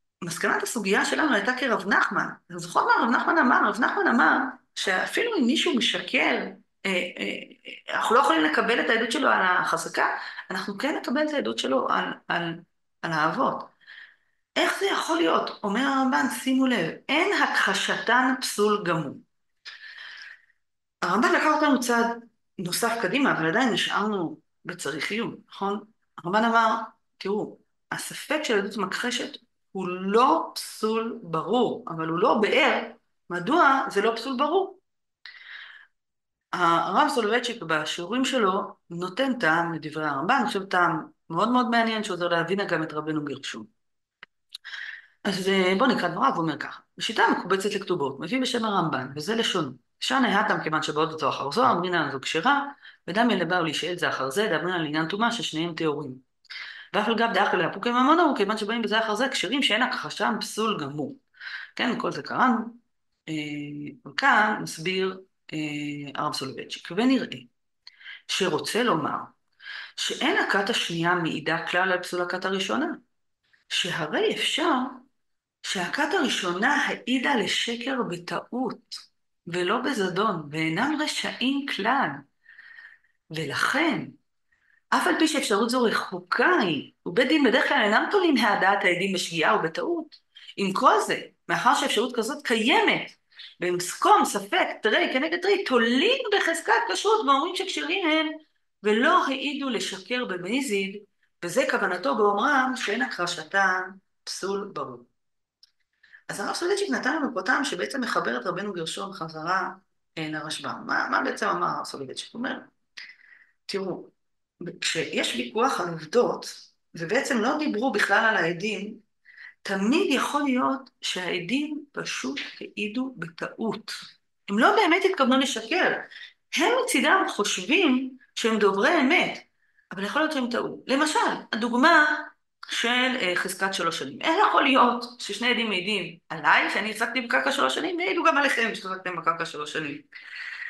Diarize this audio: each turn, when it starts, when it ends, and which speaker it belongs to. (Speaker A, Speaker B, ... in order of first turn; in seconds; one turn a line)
Speaker A: 0.2-13.7
Speaker A: 14.6-19.2
Speaker A: 21.0-34.8
Speaker A: 36.5-43.7
Speaker A: 45.2-56.2
Speaker A: 56.9-61.2
Speaker A: 61.8-67.5
Speaker A: 68.3-69.3
Speaker A: 70.0-73.0
Speaker A: 73.7-75.0
Speaker A: 75.6-82.2
Speaker A: 83.3-84.2
Speaker A: 84.9-105.1
Speaker A: 106.3-112.7
Speaker A: 113.7-119.0
Speaker A: 119.6-124.0
Speaker A: 124.5-140.0